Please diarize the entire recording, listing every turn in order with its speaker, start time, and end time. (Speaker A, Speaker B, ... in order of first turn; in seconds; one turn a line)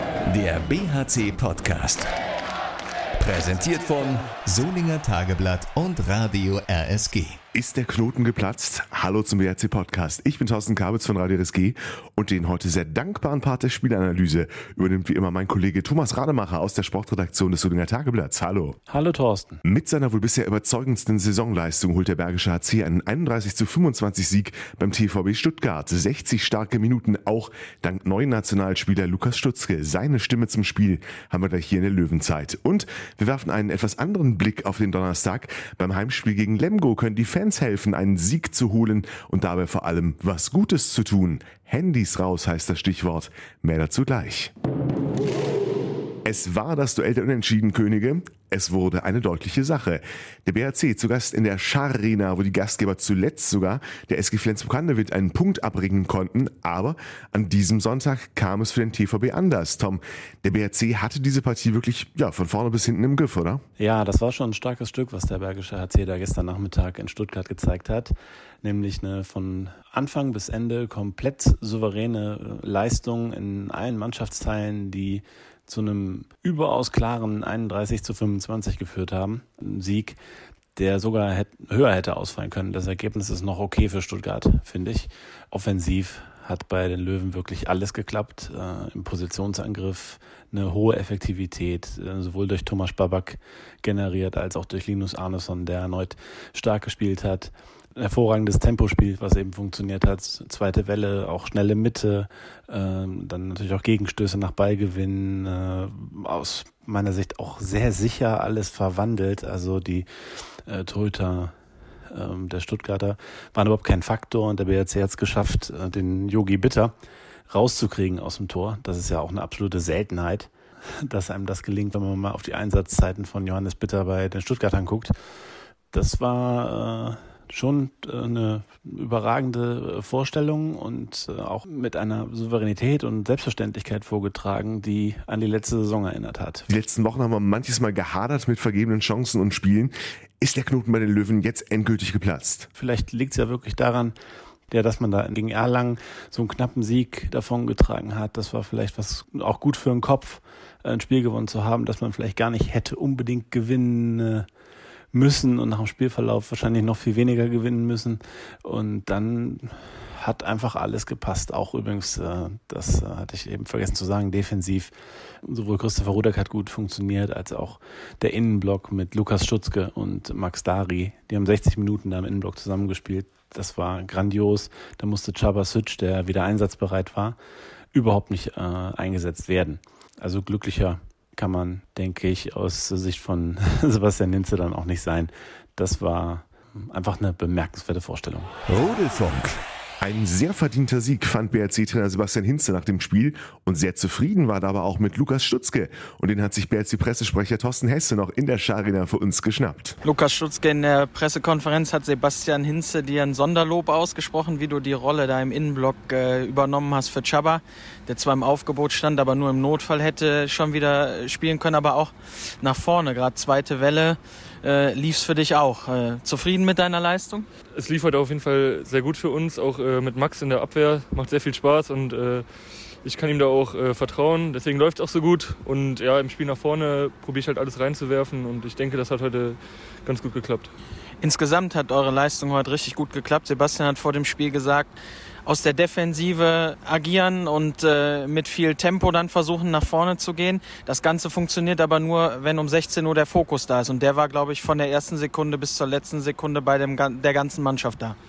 Speaker A: 0.3-2.1
Speaker A: 3.2-7.4
Speaker B: 7.5-18.8
Speaker C: 18.9-19.6
Speaker B: 19.6-44.5
Speaker B: 46.2-63.6
Speaker C: 63.8-80.2
Speaker C: 80.8-110.1
Speaker C: 110.7-111.5
Speaker C: 112.1-116.9
Speaker C: 117.5-120.5
Speaker C: 121.0-125.1
Speaker C: 125.9-136.7
Speaker B: 136.7-142.7
Speaker C: 142.8-144.1
Speaker C: 144.7-154.4
Speaker C: 155.1-164.9
Speaker C: 165.4-177.4
Speaker C: 177.9-188.5
Speaker A: 188.7-189.6
Speaker B: 190.0-200.0
Speaker D: 200.0-217.5
Speaker E: 217.8-222.4
Speaker E: 223.0-230.7
Speaker D: 231.2-234.9
Speaker D: 235.4-248.2